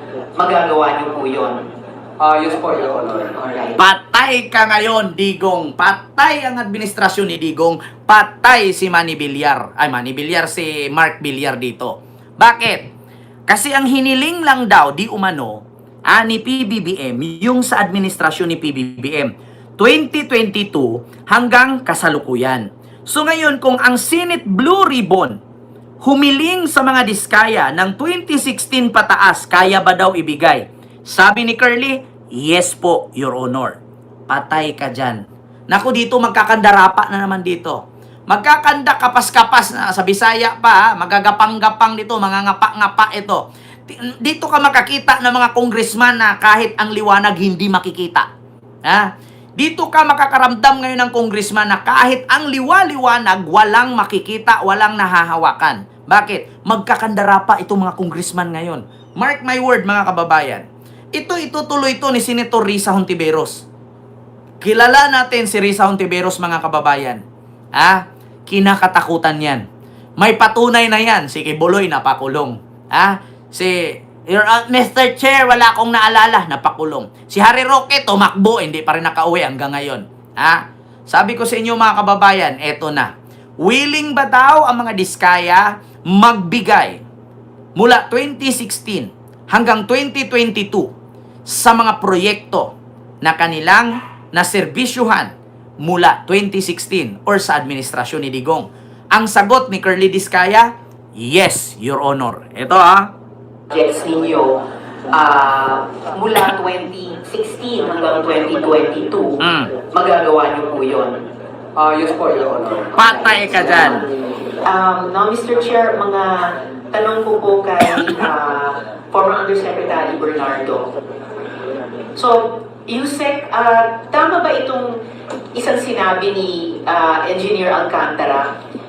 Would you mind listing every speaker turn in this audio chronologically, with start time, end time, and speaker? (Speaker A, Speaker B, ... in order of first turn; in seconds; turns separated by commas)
Speaker A: 0.3-1.6, Speaker B: 2.2-3.3, Speaker A: 3.4-3.8, Speaker C: 3.8-12.9, Speaker C: 13.5-25.4, Speaker C: 26.0-33.8, Speaker C: 34.3-48.3, Speaker C: 48.8-63.6, Speaker C: 64.6-67.2, Speaker C: 67.8-69.6, Speaker C: 70.2-87.0, Speaker C: 87.8-90.9, Speaker C: 91.5-103.1, Speaker A: 103.7-104.6, Speaker A: 105.1-111.2, Speaker C: 109.4-109.7, Speaker B: 111.8-112.9, Speaker C: 112.9-114.0, Speaker A: 113.0-114.0, Speaker A: 114.6-120.9, Speaker A: 122.2-125.0, Speaker A: 125.5-128.5